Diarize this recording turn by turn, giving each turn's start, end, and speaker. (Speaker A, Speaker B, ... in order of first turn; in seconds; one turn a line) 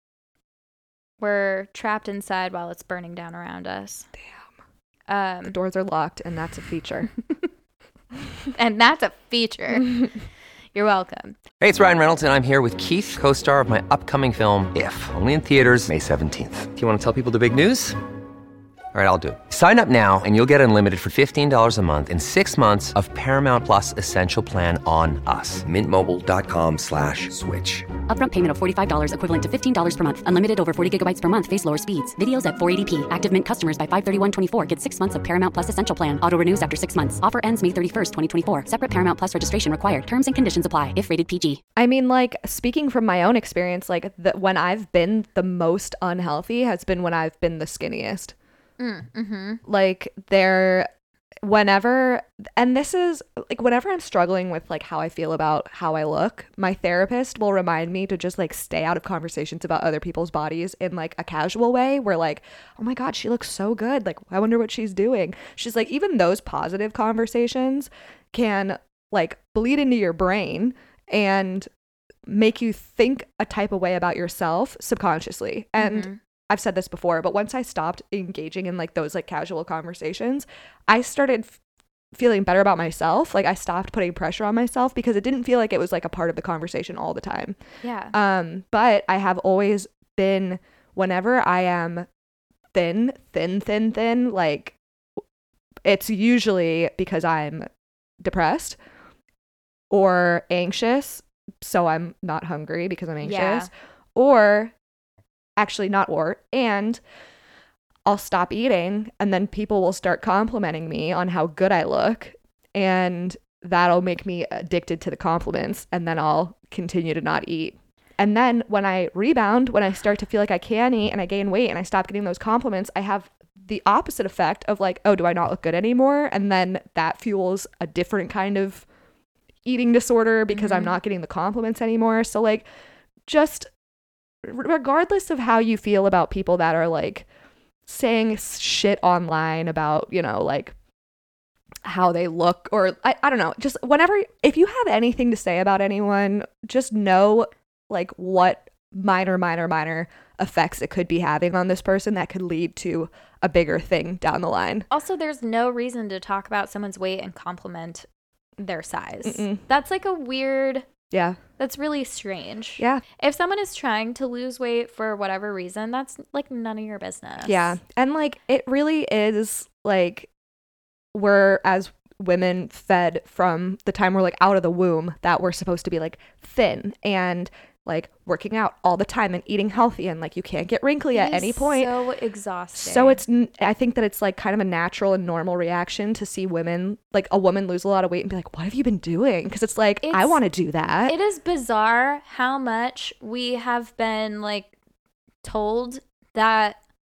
Speaker A: 1.2-4.1
Speaker A: 5.1-5.6
Speaker B: 5.5-7.1
Speaker A: 8.5-10.1
Speaker A: 10.7-11.4
Speaker C: 11.6-17.9
Speaker C: 18.9-27.9
Speaker D: 28.1-41.6
Speaker B: 41.8-48.3
Speaker A: 48.8-49.6
Speaker B: 49.6-50.9
Speaker B: 51.4-71.7
Speaker B: 72.3-81.6
Speaker A: 75.8-76.2
Speaker B: 82.1-87.6
Speaker A: 87.8-88.1
Speaker B: 88.1-92.1
Speaker B: 92.7-94.8
Speaker B: 95.8-97.7
Speaker B: 98.2-98.8
Speaker B: 99.9-104.7
Speaker A: 103.2-103.7
Speaker B: 105.6-107.0
Speaker B: 108.0-128.8
Speaker B: 129.6-132.6
Speaker A: 130.5-130.9
Speaker B: 133.3-133.7
Speaker B: 134.4-137.3
Speaker B: 137.9-140.7
Speaker B: 141.8-154.9
Speaker A: 154.9-158.1
Speaker A: 158.6-160.8
Speaker B: 159.2-159.6
Speaker B: 161.1-161.4
Speaker A: 161.6-167.8
Speaker B: 167.4-170.3
Speaker B: 171.1-181.9
Speaker A: 181.1-183.2
Speaker B: 182.7-191.1
Speaker A: 190.0-190.4
Speaker A: 191.1-194.7
Speaker A: 195.4-196.8